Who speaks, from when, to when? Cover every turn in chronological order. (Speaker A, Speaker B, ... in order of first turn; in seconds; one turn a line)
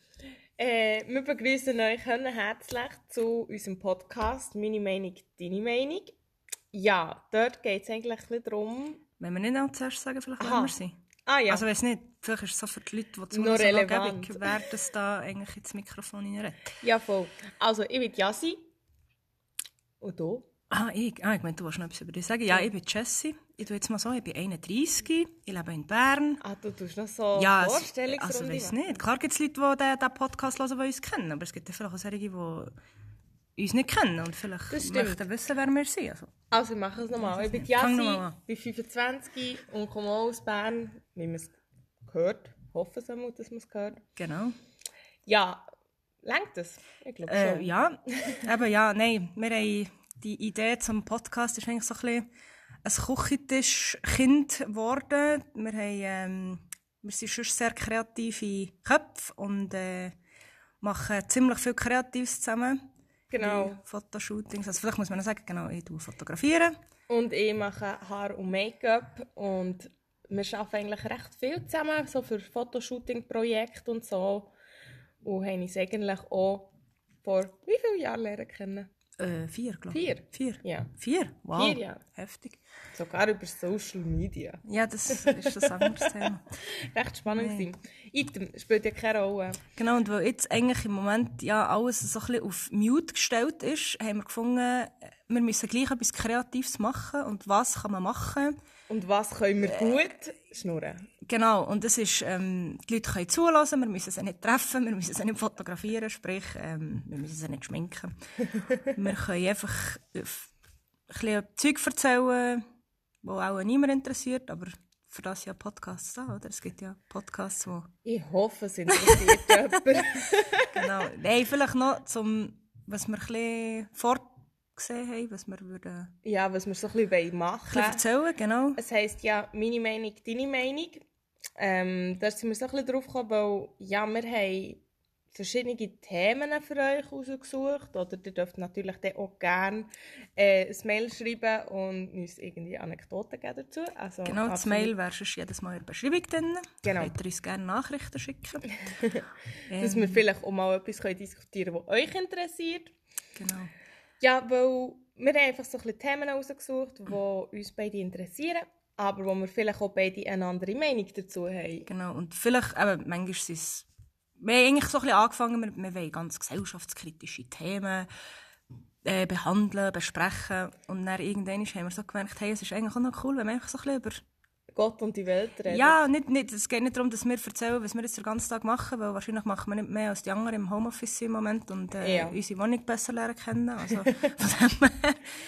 Speaker A: 0.6-6.1
Speaker A: 6.7-9.0
Speaker B: 9.2-10.9
Speaker A: 10.4-11.6
Speaker B: 11.5-16.8
Speaker A: 13.3-14.6
Speaker A: 16.8-18.6
Speaker A: 20.0-20.4
Speaker B: 20.7-26.4
Speaker A: 26.4-29.0
Speaker B: 27.4-32.7
Speaker B: 33.6-36.3
Speaker A: 34.7-35.2
Speaker A: 36.5-44.0
Speaker B: 37.4-38.4
Speaker B: 44.2-44.5
Speaker A: 45.2-45.6
Speaker A: 46.2-48.4
Speaker B: 47.2-52.3
Speaker B: 52.8-60.1
Speaker B: 60.8-62.8
Speaker A: 63.3-63.8
Speaker B: 63.4-66.7
Speaker A: 67.1-74.5
Speaker A: 75.2-78.9
Speaker B: 79.2-82.6
Speaker A: 79.9-80.9
Speaker A: 81.5-82.0
Speaker A: 82.9-89.6
Speaker B: 84.6-86.4
Speaker B: 87.3-87.7
Speaker B: 89.8-98.5
Speaker A: 98.9-101.0
Speaker B: 99.6-100.1
Speaker B: 101.2-108.1
Speaker B: 108.9-110.5
Speaker B: 111.1-112.6
Speaker B: 113.2-117.9
Speaker A: 118.0-120.7
Speaker B: 118.9-120.0
Speaker B: 120.7-126.1
Speaker A: 126.2-128.0
Speaker B: 127.7-128.8
Speaker A: 128.8-131.0
Speaker A: 131.6-134.8
Speaker A: 135.3-144.9
Speaker B: 144.2-148.7
Speaker A: 146.8-147.1
Speaker A: 148.8-152.9
Speaker B: 149.7-150.2
Speaker B: 153.3-153.7
Speaker A: 154.2-161.9
Speaker B: 161.8-163.9
Speaker B: 164.4-168.1
Speaker B: 169.0-174.2
Speaker A: 174.7-176.0
Speaker B: 175.7-185.2
Speaker A: 182.0-182.4
Speaker A: 183.9-184.2